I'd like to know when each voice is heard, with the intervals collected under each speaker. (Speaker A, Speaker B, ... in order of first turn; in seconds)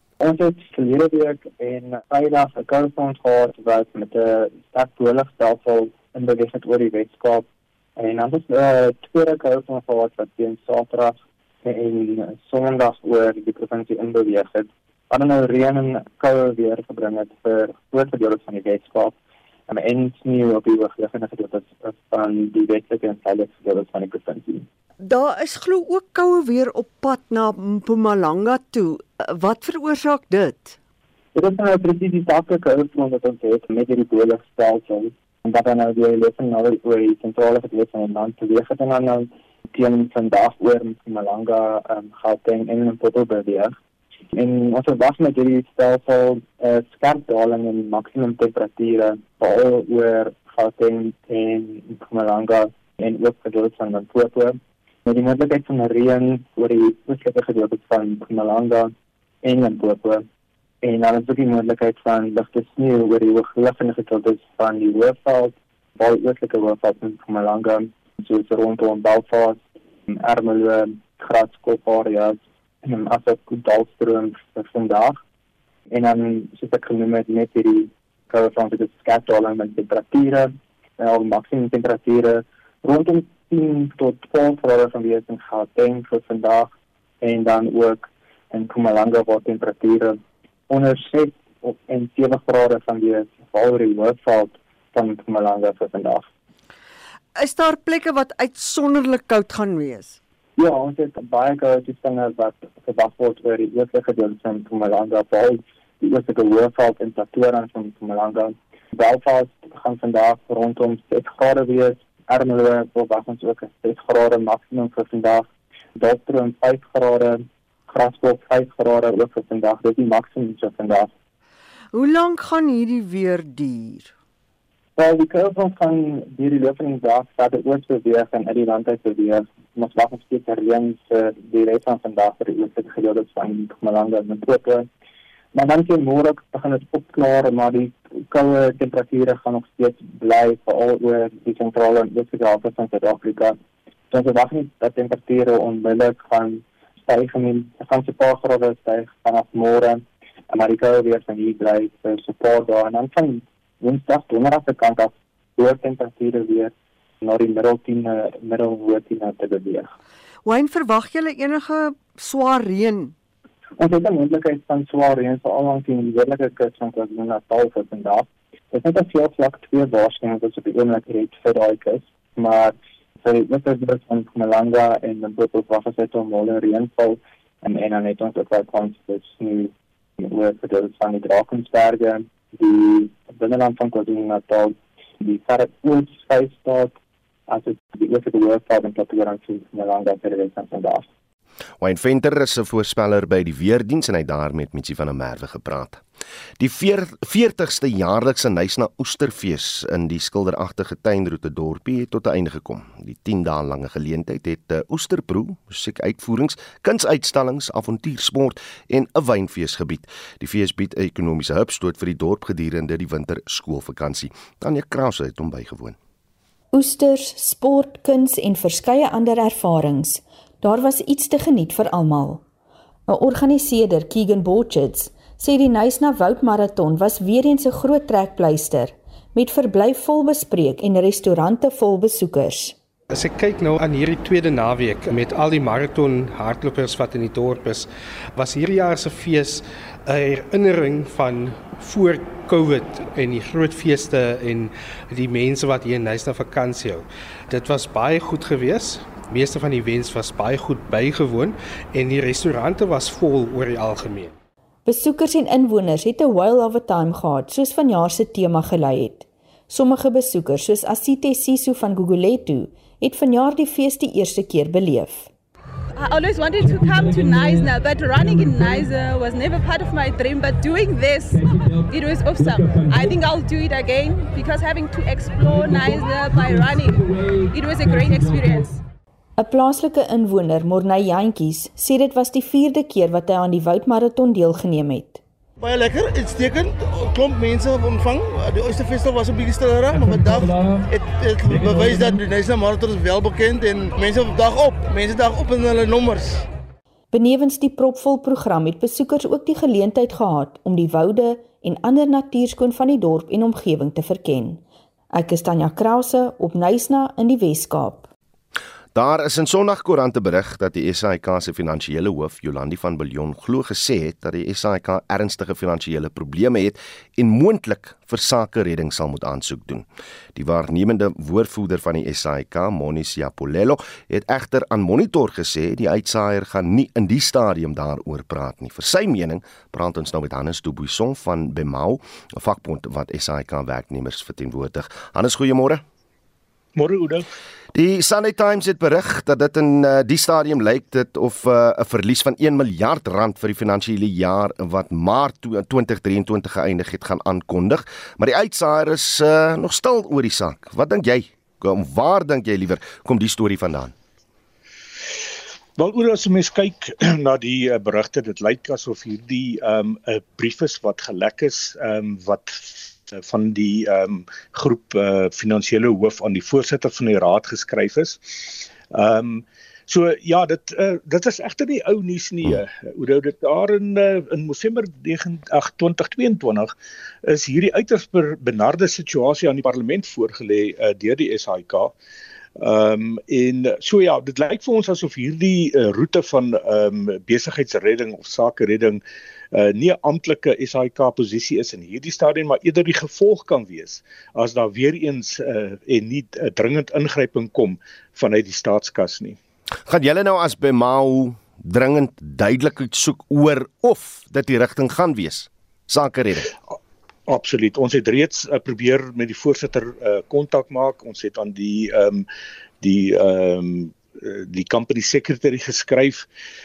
Speaker A: 0.2-19.1, 19.7-24.6, 31.3-43.8, 44.3-58.9, 59.4-60.2, 60.8-75.2, 75.9-90.2, 90.7-96.2, 100.6-121.1, 125.0-134.9, 135.5-143.6, 144.1-159.9, 163.8-186.9, 187.5-191.1
Speaker B: 25.0-30.8, 97.4-100.2, 121.9-124.1, 160.4-163.1
Speaker C: 191.8-196.0, 196.6-216.0, 308.9-335.8, 337.7-353.9, 399.9-406.5
Speaker D: 216.7-222.4, 223.1-232.8, 254.9-265.3, 279.4-285.2, 297.1-308.1
Speaker E: 233.1-254.4
Speaker F: 266.0-278.8
Speaker G: 285.6-296.4
Speaker H: 336.8-337.2, 355.8-376.7, 377.2-381.9, 382.6-389.0, 389.5-399.4, 407.3-412.2, 412.8-416.2